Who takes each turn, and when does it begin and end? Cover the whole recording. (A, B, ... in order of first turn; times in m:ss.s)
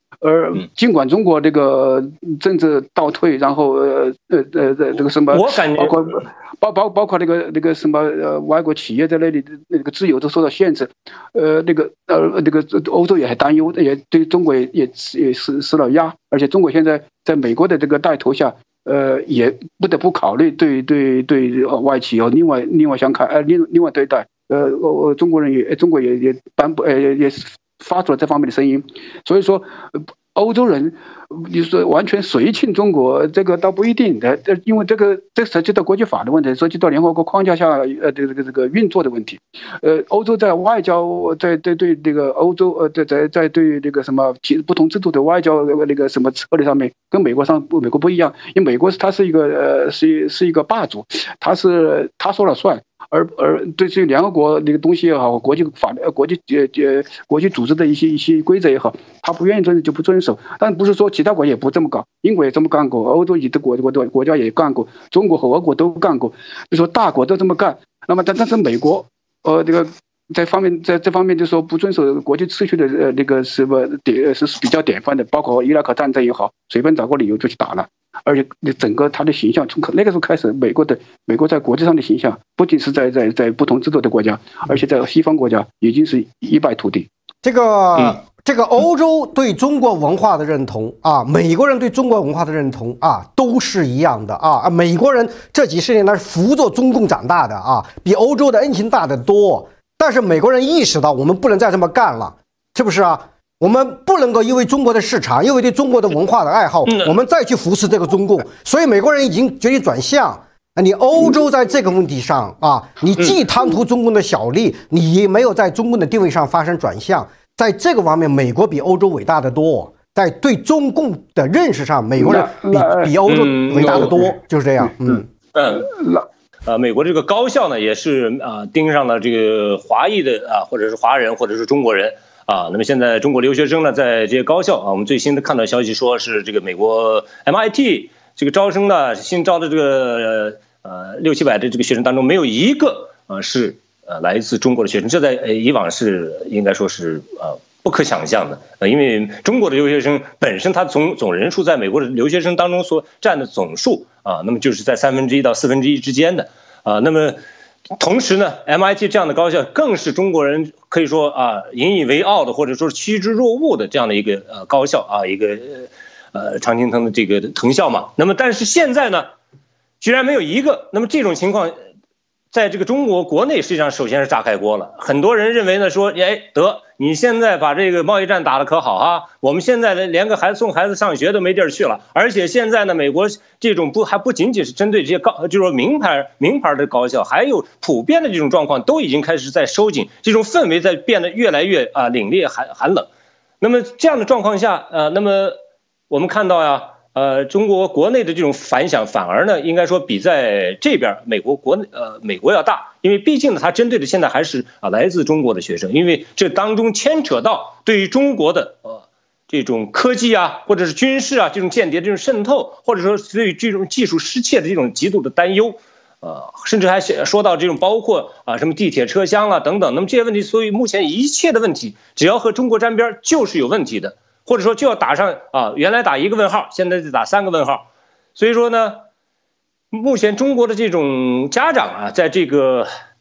0:00.2-1:27.1 A
0:05.3-0:06.1 B
1:27.4-2:05.3 C
1:46.8-1:47.1 B
2:02.2-2:03.1 A
2:03.2-2:04.2 B
2:03.7-2:04.3 A
2:05.5-2:05.9 B
2:05.8-2:06.2 A
2:06.6-2:37.4 B
2:38.0-2:49.3 B
2:50.0-2:51.8 B
2:52.5-3:13.1 B
3:13.6-3:15.6 B
3:16.1-3:49.0 B
3:49.9-3:52.9 B